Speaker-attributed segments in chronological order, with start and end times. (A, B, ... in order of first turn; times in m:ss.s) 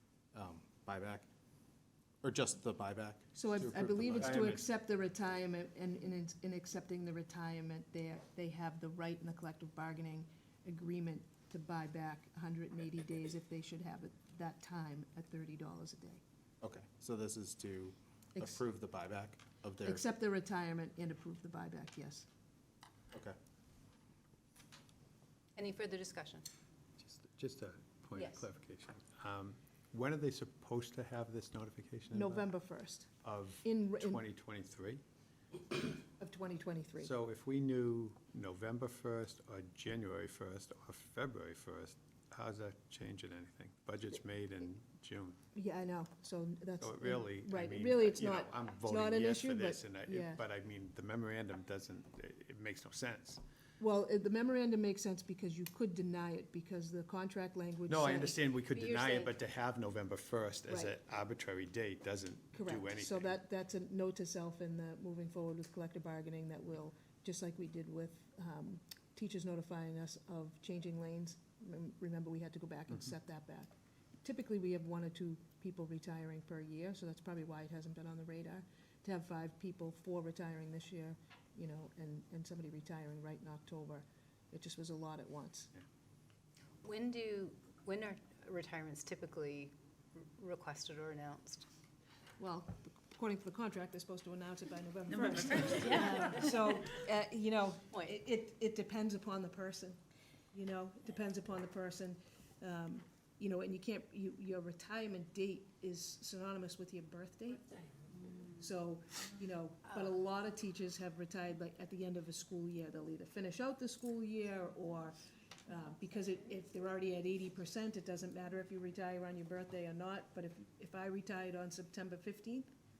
0:00.3-0:01.3 A
0:02.2-0:04.7 A
0:03.3-0:16.2 B
0:04.2-0:04.6 C
0:16.6-0:20.0 A
0:19.8-0:22.3 B
0:25.6-0:26.4 D
0:27.0-0:32.5 C
0:28.1-0:28.4 D
0:32.1-0:33.1 B
0:33.2-0:35.0 C
0:33.6-0:34.2 B
0:36.2-0:37.1 B
0:37.0-0:45.4 C
0:45.5-0:50.4 B
0:46.8-0:53.4 C
0:53.8-0:58.4 B
0:57.9-1:03.4 C
0:58.7-0:59.3 D
1:00.7-1:00.9 B
1:02.5-1:25.7 B
1:26.8-1:31.6 D
1:32.4-1:40.0 B
1:40.5-1:47.9 B
1:48.6-2:02.7 B